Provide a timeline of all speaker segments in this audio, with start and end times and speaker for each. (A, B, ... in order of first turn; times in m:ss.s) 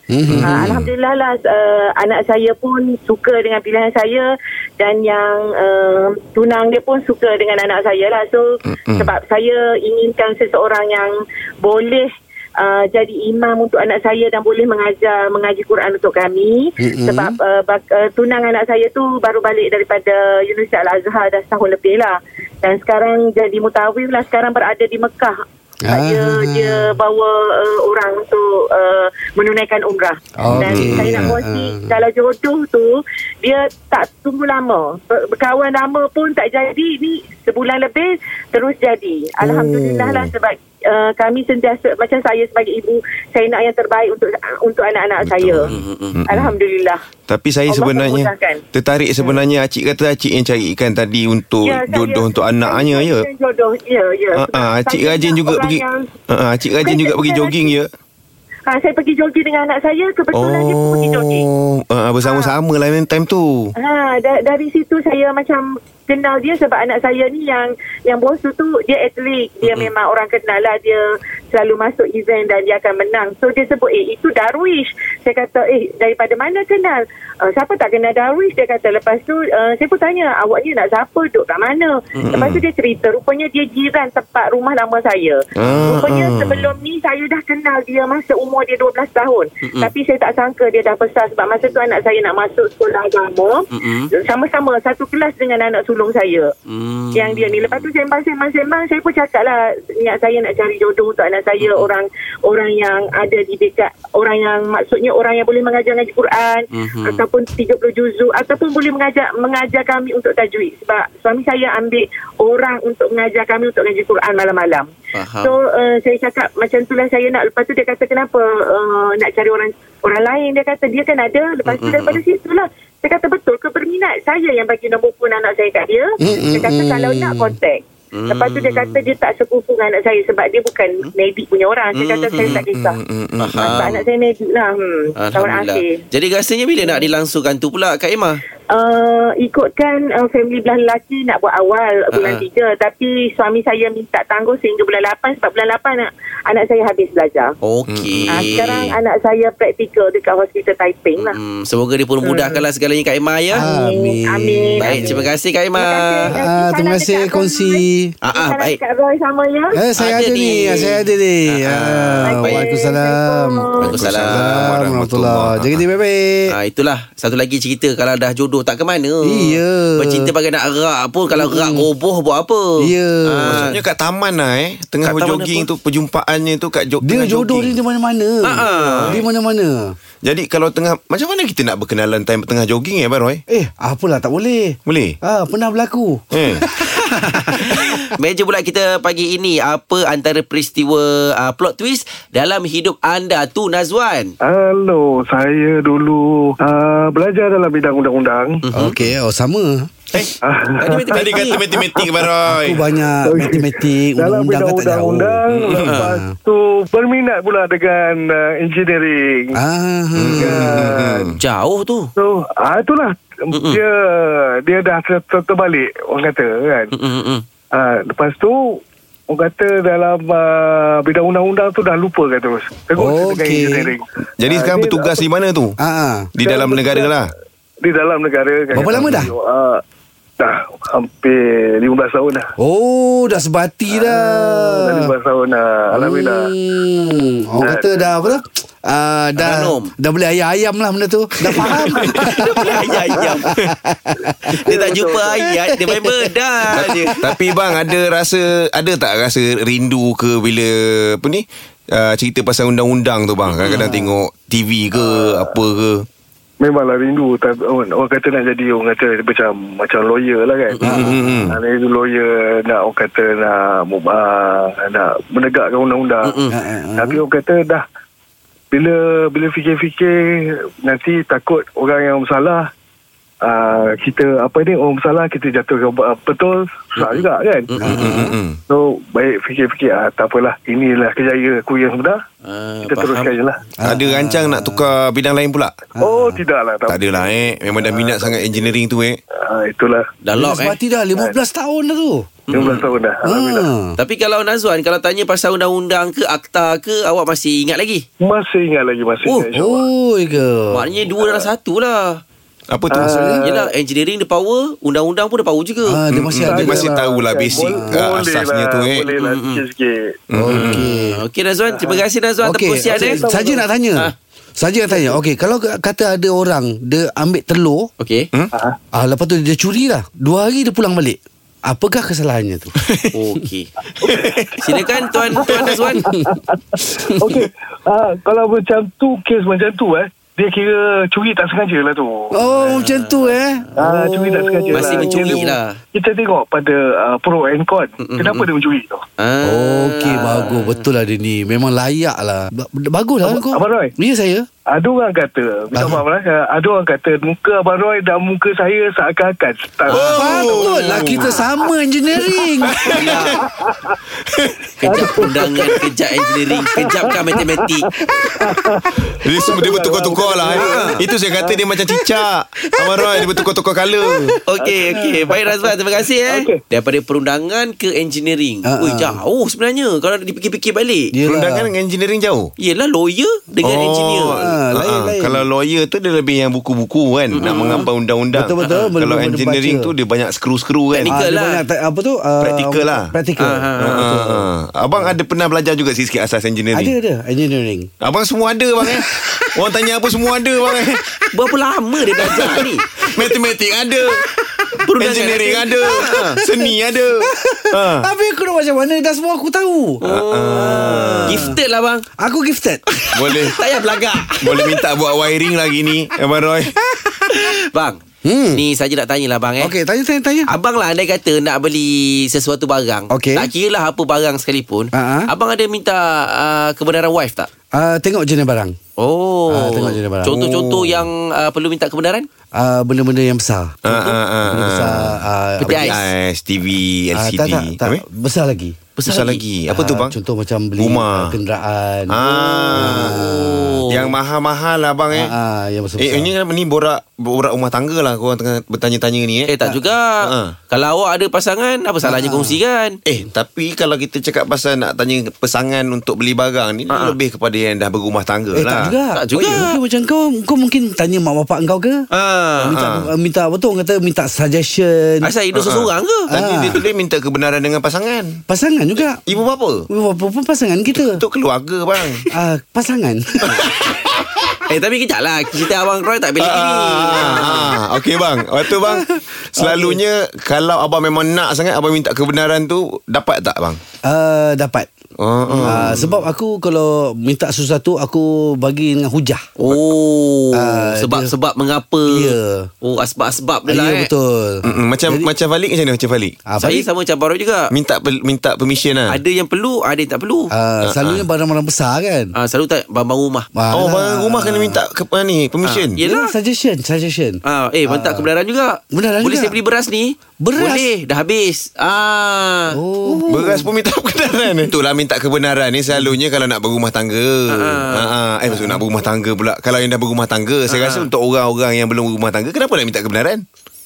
0:00.1-0:00.8 A
0:00.3-0:00.9 B
0:00.5-0:45.7 C
0:08.7-0:09.1 B
0:16.8-0:17.4 A
0:25.8-0:27.0 A
0:30.4-0:32.0 A
0:30.5-0:31.4 B
0:39.4-0:40.3 B
0:45.2-0:46.6 B
0:45.7-0:46.2 D
0:46.3-0:47.0 C
0:47.3-0:53.3 B
0:47.7-0:48.6 C
0:51.6-0:56.1 C
0:54.4-0:57.9 B
0:56.8-0:57.7 C
0:58.7-1:01.5 C
1:00.3-1:03.7 B
1:02.2-1:02.5 C
1:03.8-1:36.5 C
1:22.2-1:22.6 B
1:25.6-1:26.8 B
1:29.6-1:29.9 D
1:33.7-1:34.1 D
1:36.7-1:37.9 D
1:37.2-1:54.9 C
1:41.6-1:41.9 D
1:46.7-1:47.2 D
1:55.1-1:55.5 D
1:55.4-2:13.0 C
2:01.7-2:02.2 D
2:06.2-2:07.6 A
2:08.1-2:09.0 D
2:11.9-2:12.7 D
2:12.4-2:13.8 B
2:13.4-2:14.1 D
2:13.6-2:16.0 C
2:15.2-2:18.4 D
2:18.7-2:27.6 C
2:22.1-2:22.4 D
2:27.6-2:29.0 D
2:27.9-2:28.7 B
2:28.3-2:31.4 C
2:31.2-2:33.6 D
2:32.2-2:32.6 C
2:33.5-2:35.2 A
2:33.6-2:35.2 C
2:34.8-2:36.3 D
2:35.8-2:39.8 C
2:36.3-2:38.1 A
2:38.2-2:38.8 D
2:39.7-2:46.5 A
2:40.0-2:42.6 D
2:42.2-2:43.9 C
2:43.8-2:44.6 D
2:43.9-2:45.8 B
2:46.5-2:53.8 D
2:49.2-2:50.3 A
2:51.4-2:51.9 A
2:52.8-2:53.7 A
2:53.4-2:57.8 B
2:55.0-2:55.7 D
2:57.0-3:00.0 A
2:58.4-2:59.2 D
3:00.2-3:03.4 B
3:03.5-3:08.1 A
3:04.9-3:05.2 B
3:06.3-3:06.7 B
3:07.8-3:14.4 D
3:14.4-3:18.6 E
3:18.6-3:19.0 D
3:18.7-3:19.9 A
3:20.1-3:21.6 D
3:20.4-3:22.1 E
3:21.1-3:22.8 B
3:22.5-3:25.4 A
3:23.2-3:29.6 E
3:25.5-3:26.0 B
3:26.0-3:26.4 A
3:29.5-3:30.9 A
3:30.2-3:31.4 B
3:30.3-3:31.3 E
3:31.4-3:32.1 D
3:32.2-3:36.9 E
3:33.5-3:33.8 D
3:36.9-3:37.4 D
3:37.7-3:45.2 E
3:43.0-3:43.9 A
3:44.4-3:45.8 B
3:45.8-3:46.3 A
3:46.4-3:47.3 B
3:46.4-3:47.2 E
3:47.8-3:49.8 E
3:48.7-3:49.3 A
3:49.0-3:49.2 B
3:50.4-3:52.5 E
3:52.6-3:55.1 A
3:54.0-3:56.5 E
3:55.9-4:04.6 A
3:57.6-3:58.3 E
3:59.4-3:59.9 D
4:01.5-4:02.3 B
4:01.6-4:03.5 D
4:04.5-4:05.4 E
4:04.7-4:07.2 D
4:05.7-4:06.1 A
4:06.7-4:16.1 B
4:13.7-4:14.2 A
4:15.0-4:15.5 E
4:16.6-4:26.4 E
4:20.7-4:21.1 D
4:20.8-4:21.4 A
4:20.9-4:21.6 B
4:26.2-4:26.5 D
4:26.5-4:27.2 A
4:27.0-4:27.8 E
4:28.7-4:32.7 E
4:33.4-4:37.7 E
4:37.0-4:38.0 D
4:37.8-4:38.4 A
4:37.8-4:38.6 B
4:38.7-4:42.2 E
4:42.4-4:43.4 D
4:42.8-4:43.6 E
4:43.8-4:44.9 A
4:43.8-4:45.8 B
4:46.0-4:46.4 A
4:46.0-4:48.7 E
4:46.9-4:49.2 B
4:49.4-4:50.0 E
4:50.2-4:50.8 D
4:50.4-4:52.3 A
4:52.5-4:52.9 D
4:52.5-4:53.7 E
4:53.2-4:54.0 A
4:54.0-4:58.0 D
4:58.2-4:59.8 E
4:59.2-4:59.5 D
4:59.5-5:00.8 A
5:00.7-5:02.2 D
5:01.2-5:01.5 E
5:02.7-5:03.2 B
5:02.9-5:03.6 E
5:03.0-5:03.4 A
5:03.4-5:06.0 D
5:05.9-5:07.0 A
5:06.1-5:09.1 B
5:06.4-5:10.2 E
5:07.6-5:08.0 A
5:09.2-5:09.6 D
5:10.3-5:10.8 B
5:10.3-5:11.2 A
5:10.5-5:13.2 D
5:11.7-5:12.0 E
5:12.4-5:17.9 A
5:12.9-5:13.6 E
5:14.9-5:15.2 E
5:18.0-5:18.3 D
5:18.9-5:22.7 A
5:22.8-5:23.1 B
5:23.1-5:23.7 D
5:24.0-5:32.3 E
5:24.1-5:24.6 B
5:24.6-5:26.1 D
5:26.1-5:27.3 A
5:32.3-5:35.5 A
5:32.5-5:33.9 D
5:33.8-5:39.0 E
5:34.7-5:35.8 D
5:38.0-5:38.5 D
5:39.2-5:40.8 D
5:39.4-5:44.5 A
5:43.3-5:43.9 E
5:44.7-5:50.3 E
5:45.7-5:46.0 A
5:49.9-5:51.4 B
5:49.9-5:50.3 D
5:50.2-5:53.0 A
5:52.7-5:53.2 B
5:52.9-5:53.4 D
5:53.4-5:54.0 E
5:54.2-5:55.1 B
5:54.8-5:57.9 D
5:54.9-5:55.5 E
5:56.8-6:01.6 E
5:59.1-6:04.4 B
6:00.5-6:01.0 D
6:02.8-6:03.5 A
6:04.0-6:04.4 A
6:04.5-6:11.1 D
6:04.6-6:05.0 E
6:06.2-6:06.6 E
6:08.6-6:09.2 A
6:11.1-6:11.7 A
6:11.2-6:12.5 B
6:12.6-6:14.4 D
6:13.6-6:21.2 B
6:14.3-6:15.4 A
6:17.3-6:17.9 D
6:17.4-6:17.8 A
6:18.3-6:19.9 A
6:20.9-6:21.6 D
6:21.1-6:25.2 A
6:22.4-6:23.1 B
6:23.4-6:24.1 D
6:23.8-6:27.0 B
6:26.7-6:27.9 A
6:28.0-6:31.1 B
6:28.8-6:29.8 A
6:30.6-6:31.0 A
6:31.3-6:32.8 D
6:32.2-6:33.4 A
6:32.2-6:38.1 B
6:34.8-6:36.4 D
6:35.9-6:41.6 A
6:40.0-6:42.1 D
6:40.0-6:41.6 B
6:42.2-6:43.8 A
6:43.1-6:43.6 B
6:43.5-6:44.8 D
6:44.4-6:46.8 B
6:47.4-6:48.0 D
6:48.2-6:48.6 A
6:48.5-6:49.7 D
6:49.6-6:50.5 A
6:50.5-6:57.5 D
6:53.1-6:53.5 A
6:54.9-6:55.3 A
6:57.7-6:58.8 A
6:59.0-7:02.3 D
6:59.5-7:00.3 A
7:00.3-7:01.1 B
7:02.5-7:03.8 A
7:03.8-7:08.0 B
7:03.9-7:04.2 D
7:04.4-7:06.1 A
7:05.6-7:06.0 D
7:07.2-7:08.8 A
7:09.0-7:09.4 D
7:09.1-7:10.2 B
7:09.7-7:13.8 A
7:10.8-7:11.4 B
7:12.1-7:13.2 B
7:12.3-7:14.2 D
7:13.9-7:15.3 B
7:15.1-7:16.3 A
7:16.0-7:19.6 B
7:19.5-7:23.0 D
7:20.2-7:20.6 B
7:22.0-7:22.6 A
7:23.0-7:29.0 B
7:26.9-7:27.2 D
7:28.5-7:32.1 A
7:29.1-7:29.8 D
7:32.1-7:32.8 D
7:32.6-7:35.3 A
7:32.6-7:33.1 B
7:35.2-7:36.3 D
7:35.5-7:38.4 B
7:36.3-7:36.8 A
7:38.5-7:39.2 A
7:39.3-7:39.9 B
7:39.9-7:41.2 A
7:41.1-7:42.3 B
7:42.3-7:43.7 A
7:43.5-7:44.6 B
7:44.7-7:47.8 D
7:46.4-7:53.8 B
7:48.7-7:50.0 A
7:54.0-7:54.9 A
7:55.2-7:56.0 B
7:55.5-7:56.2 D
7:55.6-7:59.5 A
7:59.6-8:04.1 D
8:00.5-8:01.3 A
8:02.1-8:02.7 A
8:03.7-8:05.3 A
8:04.6-8:06.4 B
8:06.5-8:06.9 A
8:06.6-8:07.7 D
8:07.7-8:09.2 B
8:09.1-8:10.5 D
8:10.5-8:12.3 A
8:10.8-8:11.2 B
8:12.4-8:13.5 D
8:13.5-8:14.8 A
8:13.7-8:16.0 B
8:15.6-8:16.3 D
8:16.0-8:18.3 A
8:17.4-8:22.8 D
8:18.9-8:19.6 A
8:20.4-8:20.9 A
8:22.7-8:23.7 A
8:23.3-8:33.4 B
8:27.5-8:28.1 D
8:28.5-8:28.8 A
8:30.7-8:31.1 D